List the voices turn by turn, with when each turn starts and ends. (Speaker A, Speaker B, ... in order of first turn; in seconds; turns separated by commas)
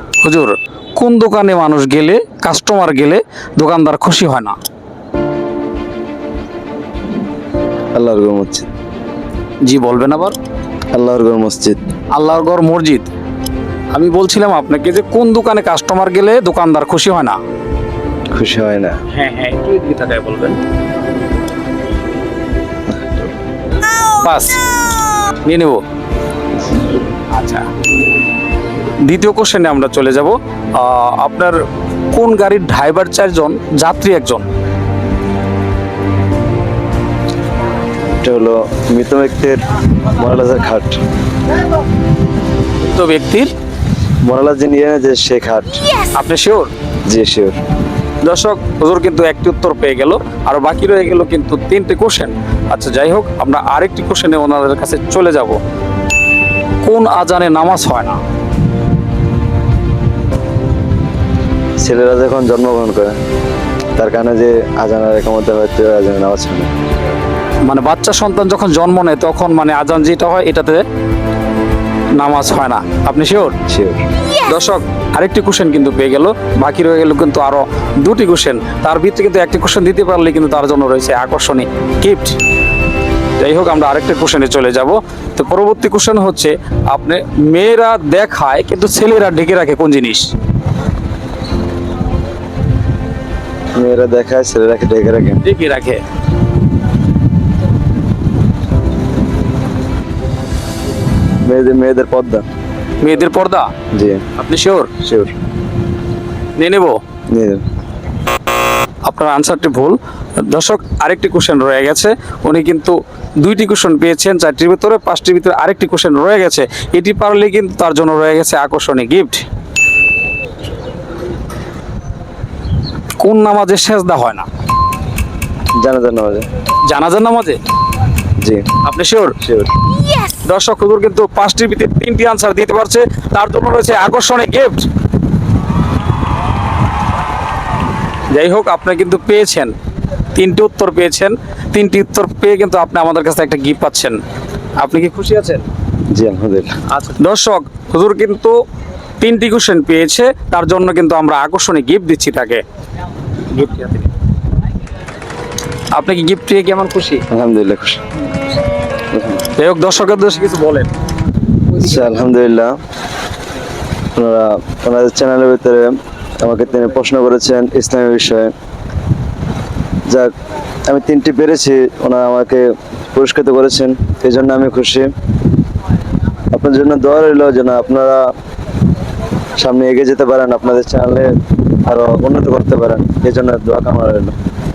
Speaker A: 0.2-4.5, Speaker B: 7.9-8.7, Speaker A: 9.6-10.3, Speaker B: 10.9-11.9, Speaker A: 12.1-13.1, Speaker A: 13.9-17.4, Speaker B: 18.3-19.0, Speaker A: 19.1-20.6, Speaker B: 22.9-23.2, Speaker A: 24.2-24.6, Speaker A: 25.4-25.8, Speaker A: 27.3-27.6, Speaker A: 29.0-31.6, Speaker A: 32.1-34.5, Speaker B: 38.2-41.0, Speaker A: 42.8-43.5, Speaker B: 44.2-45.8, Speaker A: 46.1-46.7, Speaker B: 47.1-47.6, Speaker A: 48.2-55.6, Speaker A: 56.8-58.2, Speaker B: 61.8-63.2, Speaker B: 64.0-66.7, Speaker A: 67.7-70.8, Speaker A: 72.1-73.6, Speaker B: 73.7-74.0, Speaker A: 74.5-82.4, Speaker A: 83.4-90.3, Speaker B: 93.7-95.4, Speaker A: 95.4-96.0, Speaker B: 101.4-102.5, Speaker A: 103.0-103.7, Speaker B: 103.9-104.2, Speaker A: 104.3-104.9, Speaker B: 105.0-105.3, Speaker A: 106.6-107.0, Speaker B: 107.3-107.6, Speaker A: 109.0-119.5, Speaker A: 123.2-124.5, Speaker B: 125.8-126.5, Speaker A: 126.9-127.6, Speaker B: 128.4-128.7, Speaker A: 128.8-129.3, Speaker B: 129.4-129.7, Speaker A: 130.4-134.9, Speaker A: 138.3-139.7, Speaker A: 140.3-144.2, Speaker A: 144.8-145.6, Speaker B: 146.1-146.8, Speaker A: 146.9-148.6, Speaker A: 149.2-152.6, Speaker A: 153.5-154.1, Speaker A: 155.9-157.2, Speaker B: 157.3-158.0, Speaker B: 159.1-159.4, Speaker A: 159.6-160.9, Speaker B: 161.7-162.8, Speaker B: 164.2-168.5, Speaker B: 170.1-170.3, Speaker B: 170.9-175.1, Speaker B: 176.5-178.3, Speaker B: 179.6-181.3, Speaker B: 181.8-184.3